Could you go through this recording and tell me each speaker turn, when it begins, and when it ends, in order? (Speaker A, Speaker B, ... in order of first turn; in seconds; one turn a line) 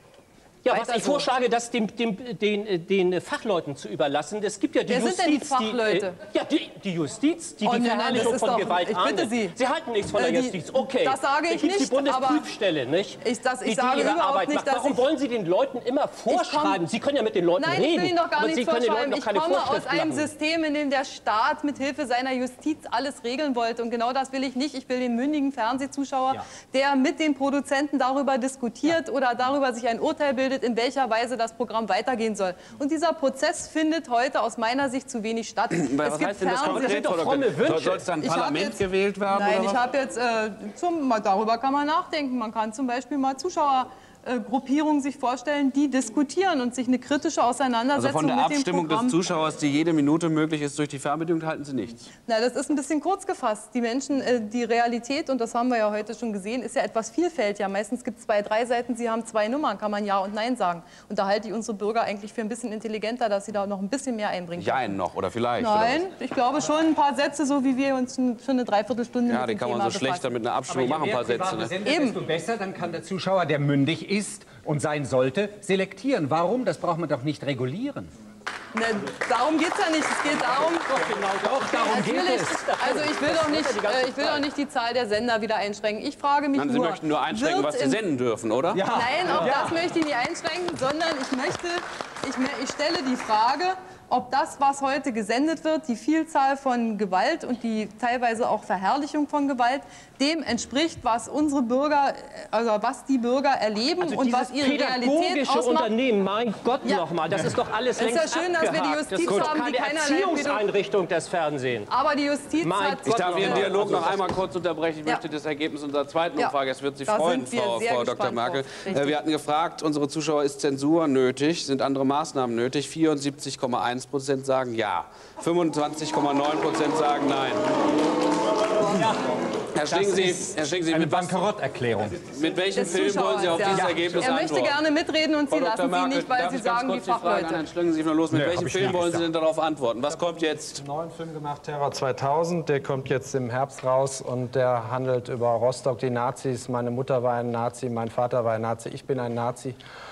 Speaker A: 0.6-20.3
Speaker B: 0.7-1.3
Speaker B: 4.9-6.2
Speaker B: 7.6-9.6
Speaker B: 10.1-12.5
Speaker B: 13.2-15.0
Speaker B: 16.3-16.8
Speaker B: 17.6-37.1
Speaker C: 35.9-39.8
Speaker A: 36.2-38.1
Speaker B: 38.2-49.2
Speaker C: 47.9-52.1
Speaker B: 52.3-65.0
Speaker C: 64.6-66.0
Speaker B: 65.6-70.3
Speaker C: 69.3-71.7
Speaker D: 70.7-78.1
Speaker B: 71.8-72.2
Speaker B: 78.7-80.9
Speaker A: 80.9-84.5
Speaker D: 81.4-82.5
Speaker B: 81.8-88.0
Speaker C: 86.6-88.8
Speaker D: 88.7-89.8
Speaker B: 88.9-105.9
Speaker A: 104.0-111.9
Speaker B: 108.0-110.7
Speaker B: 111.9-113.9
Speaker A: 112.6-114.3
Speaker C: 113.2-127.6
Speaker B: 116.4-119.2
Speaker D: 128.8-129.2
Speaker C: 129.8-131.5
Speaker D: 129.8-132.3
Speaker C: 132.3-134.7
Speaker B: 132.7-137.6
Speaker D: 133.6-134.4
Speaker C: 135.5-140.8
Speaker D: 138.3-139.3
Speaker E: 140.8-149.8